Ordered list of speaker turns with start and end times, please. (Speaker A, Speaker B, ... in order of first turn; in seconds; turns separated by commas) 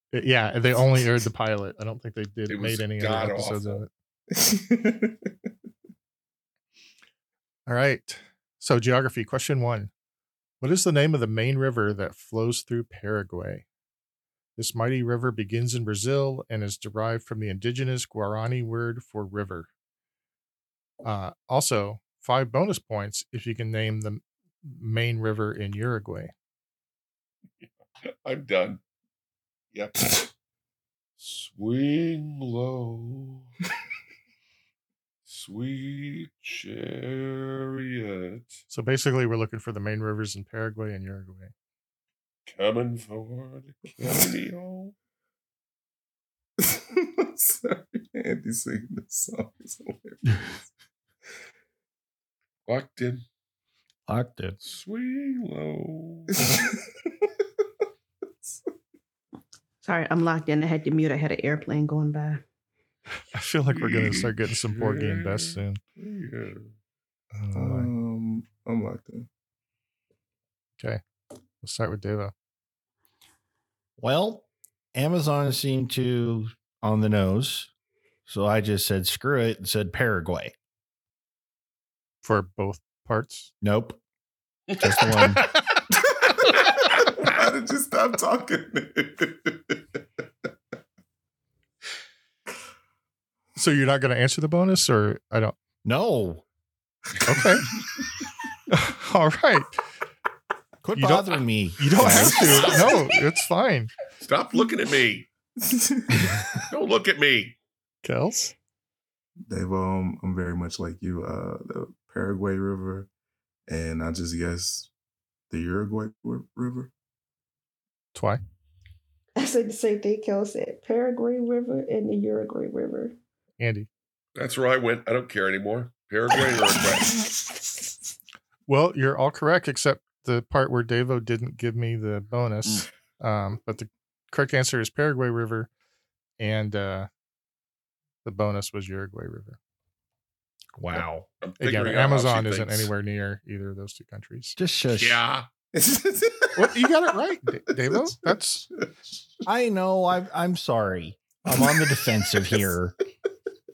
Speaker A: 0.1-3.9, Speaker B: 2.5-3.8, Speaker C: 4.3-5.3, Speaker A: 7.7-9.9, Speaker A: 10.6-13.7, Speaker A: 14.6-19.7, Speaker A: 21.0-26.3, Speaker B: 28.2-28.8, Speaker B: 29.7-30.3, Speaker B: 31.2-33.5, Speaker B: 35.3-38.6, Speaker A: 38.7-41.5, Speaker B: 42.5-44.9, Speaker C: 46.6-50.7, Speaker B: 52.7-53.2, Speaker D: 54.1-54.6, Speaker B: 54.6-56.3, Speaker C: 56.4-56.8, Speaker E: 59.8-62.4, Speaker A: 63.3-65.8, Speaker B: 63.7-66.7, Speaker C: 67.3-69.3, Speaker A: 67.5-67.9, Speaker A: 71.6-72.3, Speaker D: 74.0-77.7, Speaker D: 78.3-80.5, Speaker A: 82.2-83.5, Speaker D: 83.6-84.0, Speaker D: 84.8-85.5, Speaker C: 87.2-89.8, Speaker A: 93.6-95.6, Speaker D: 95.8-96.4, Speaker A: 97.3-97.6, Speaker A: 98.7-99.8, Speaker D: 100.8-102.8, Speaker A: 100.9-103.9, Speaker B: 104.2-105.3, Speaker C: 105.6-106.6, Speaker B: 106.7-107.6, Speaker A: 108.0-108.5, Speaker C: 109.5-113.1, Speaker C: 113.7-114.9, Speaker C: 115.5-116.9, Speaker A: 118.2-118.4, Speaker E: 119.4-123.2, Speaker A: 123.6-123.9, Speaker B: 124.4-127.2, Speaker A: 128.7-135.7, Speaker A: 136.4-137.1, Speaker A: 138.2-139.6, Speaker D: 140.8-141.3, Speaker B: 141.4-142.9, Speaker A: 141.6-144.6, Speaker D: 144.6-145.2, Speaker B: 144.9-145.5, Speaker C: 145.8-146.8, Speaker A: 146.6-148.7, Speaker D: 149.5-152.9